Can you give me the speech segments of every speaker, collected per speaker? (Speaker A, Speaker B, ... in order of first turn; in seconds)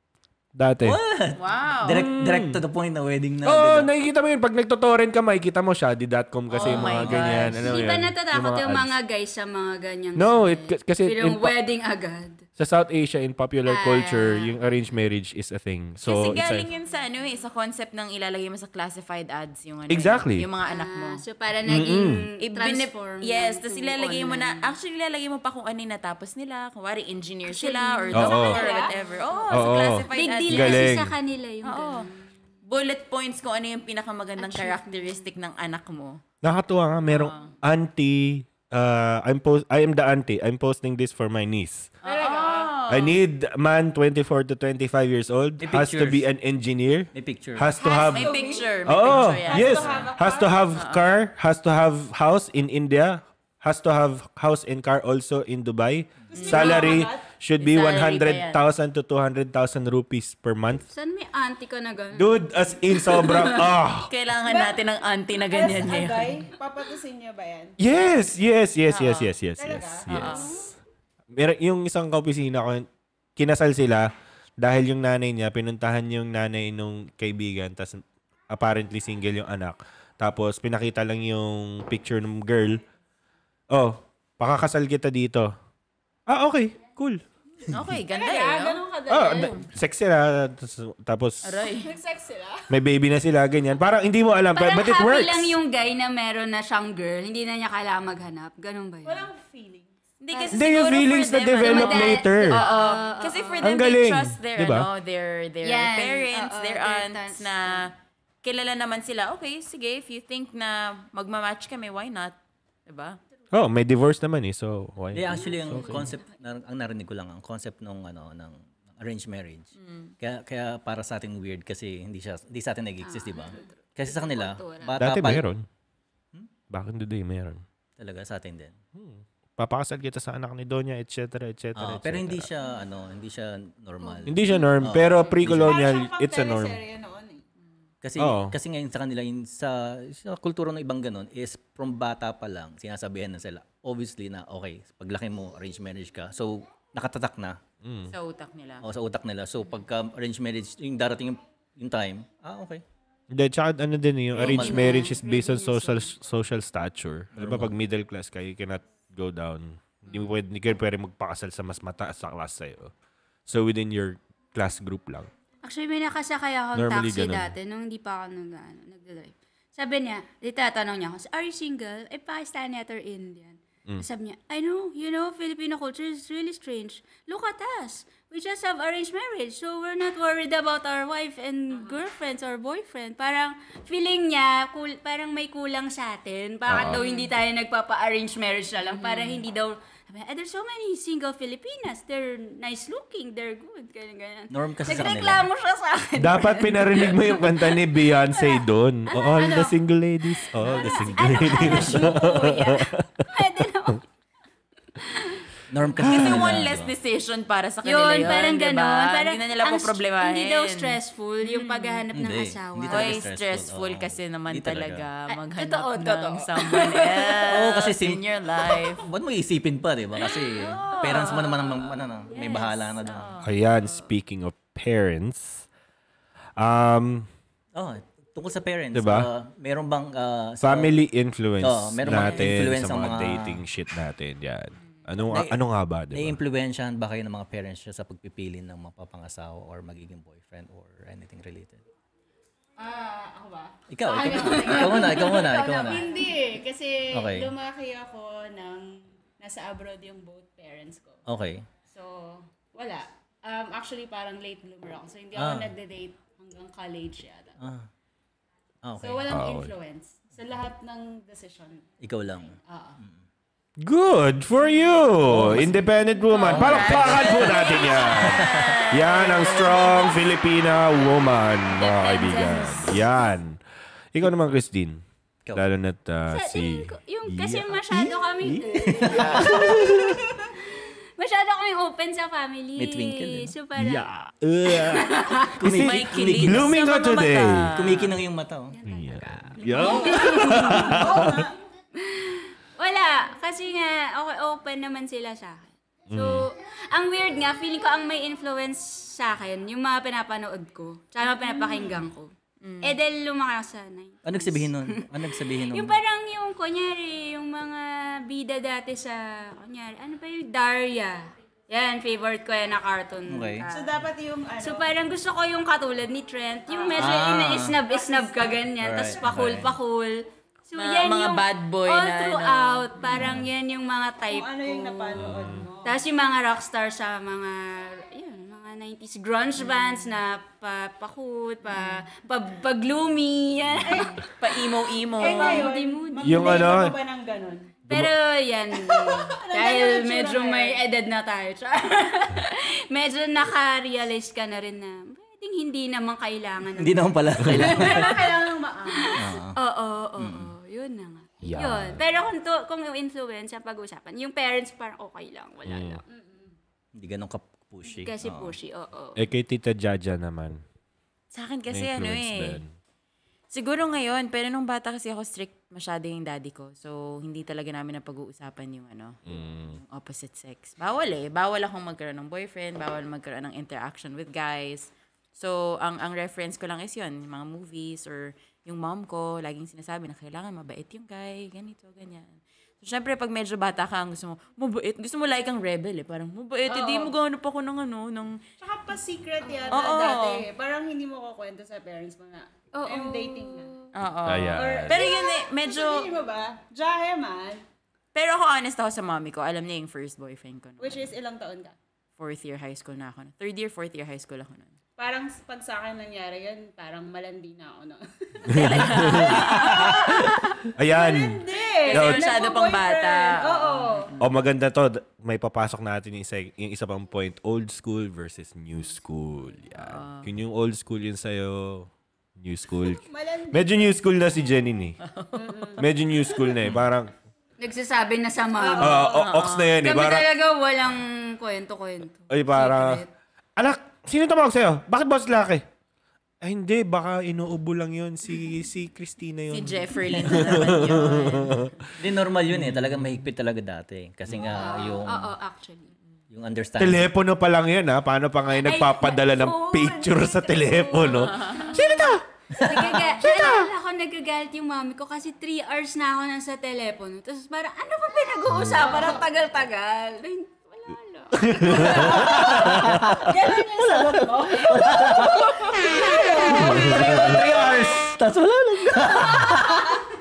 Speaker A: 0.6-1.0, 1.9-2.6, 3.4-8.9, 10.2-11.5, 12.6-16.7, 19.9-20.5, 21.7-22.3, 28.1-28.6, 29.5-31.1, 36.4-41.9, 42.9-60.9, 62.2-64.1, 67.8-70.5, 71.3-72.9, 73.4-74.1, 74.6-82.8, 83.7-85.5, 86.3-87.2, 89.1-91.6, 92.7-95.6, 100.5-102.6, 103.6-104.9, 113.5-116.2, 125.0-125.7, 126.7-127.6, 128.9-132.5, 134.2-136.8, 138.2-138.6, 147.8-148.1, 153.3-162.9, 163.5-165.3, 166.8-167.5, 186.7-187.0, 196.2-203.3, 206.1-206.5, 223.4-225.7, 226.6-227.3, 228.9-229.3, 230.6-236.4, 259.3-259.7, 263.8-273.6, 274.1-275.0, 275.6-280.2, 283.8-287.7, 288.9-291.5, 296.1-296.4, 319.3-319.7, 323.1-323.5, 325.1-325.7, 336.2-337.0, 351.4-352.0, 355.7-356.0, 359.2-360.6, 361.7-362.7, 369.3-369.8, 394.2-395.0, 408.5-410.1, 410.8-412.3, 414.2-423.0, 423.5-425.0, 425.8-427.1, 428.8-430.3, 432.3-433.0, 433.6-435.6, 436.4-441.9, 442.5-443.1, 446.8-452.2, 452.8-453.7, 458.5-458.9, 461.4-463.1, 466.8-467.4
Speaker B: 0.8-3.9, 45.6-46.2, 47.1-47.7, 115.1-125.5, 128.0-128.8, 131.8-135.8, 138.0-147.6, 148.8-152.8, 154.3-155.2, 157.3-157.7, 194.5-195.5, 205.7-206.9, 212.1-215.1, 217.5-218.2, 219.0-223.4, 227.8-230.9, 231.6-233.6, 235.3-235.6, 236.1-241.8, 243.9-246.1, 247.1-247.5, 251.3-251.7, 255.3-255.7, 257.6-257.9, 258.8-259.3, 262.0-263.2, 265.3-265.9, 266.4-268.8, 278.9-280.2, 282.8-283.5, 285.6-286.8, 287.7-288.8, 304.2-306.0, 313.3-313.6, 317.0-317.8, 318.8-319.7, 346.8-348.3, 349.2-349.6, 350.2-350.5, 357.0-358.5, 442.0-445.3, 446.3-447.1, 452.6-453.0, 462.0-465.5, 466.0-470.1
Speaker C: 1.4-2.1, 6.5-7.8, 16.1-21.2, 22.4-30.9, 31.6-32.1, 32.7-36.2, 37.1-37.5, 42.0-43.2, 47.9-50.1, 50.7-51.0, 56.4-57.0, 57.6-58.6, 64.0-66.5, 68.9-69.3, 70.1-70.6, 87.7-89.6, 91.5-91.9, 100.2-107.9, 108.4-113.2, 119.8-120.1, 148.1-148.8, 186.8-187.3, 188.9-189.4, 206.0-212.1, 212.8-219.1, 220.5-221.7, 223.0-223.5, 232.0-232.5, 266.5-270.0, 272.2-273.0, 285.6-288.1, 302.6-302.9, 320.8-322.9, 334.4-335.7, 361.3-362.6, 363.5-369.2, 369.7-388.4, 389.7-390.5, 393.9-396.1, 398.1-401.1, 402.2-404.7, 408.5-410.2, 411.9-413.9, 419.8-420.3, 425.0-425.8, 429.1-429.8, 439.5-441.7, 451.2-451.6
Speaker D: 6.8-12.4, 13.7-14.5, 20.7-24.7, 27.5-32.3, 34.4-35.3, 60.9-63.7, 94.5-99.3, 100.3-100.6, 101.6-103.6, 105.6-107.9, 123.0-124.9, 154.4-156.1, 165.6-197.5, 199.1-199.6, 200.7-204.0, 205.0-205.5, 207.8-213.3, 215.3-217.5, 221.0-221.6, 222.3-223.0, 244.1-246.3, 267.4-268.3, 271.2-273.1, 276.3-280.1, 280.7-284.1, 284.7-285.6, 289.8-291.0, 292.0-302.3, 302.8-313.6, 314.6-325.2, 325.8-334.2, 335.2-336.7, 337.9-348.2, 348.9-356.0, 357.9-359.2, 389.4-389.9, 392.8-393.9, 427.6-429.1, 429.8-433.1, 444.4-445.9, 448.6-462.7, 465.8-466.7
Speaker E: 42.0-42.7, 47.9-50.7, 56.3-57.3, 64.5-64.8, 65.5-67.8, 69.6-70.7, 88.1-89.7, 91.7-92.7, 99.0-99.9, 135.0-137.4, 199.4-199.7, 242.8-251.2, 251.9-257.6, 259.0-261.9, 262.7-263.0, 288.8-291.5, 301.3-302.0, 313.7-314.9, 316.8-317.3, 317.9-318.5, 324.2-326.0, 333.8-334.3, 335.2-337.7, 338.8-340.9, 347.5-349.2, 356.1-356.5, 386.8-387.1, 388.6-393.7, 394.6-397.6, 400.8-401.8, 405.0-414.2, 422.8-423.9, 425.4-425.9, 428.6-429.3, 461.7-462.7, 463.2-467.9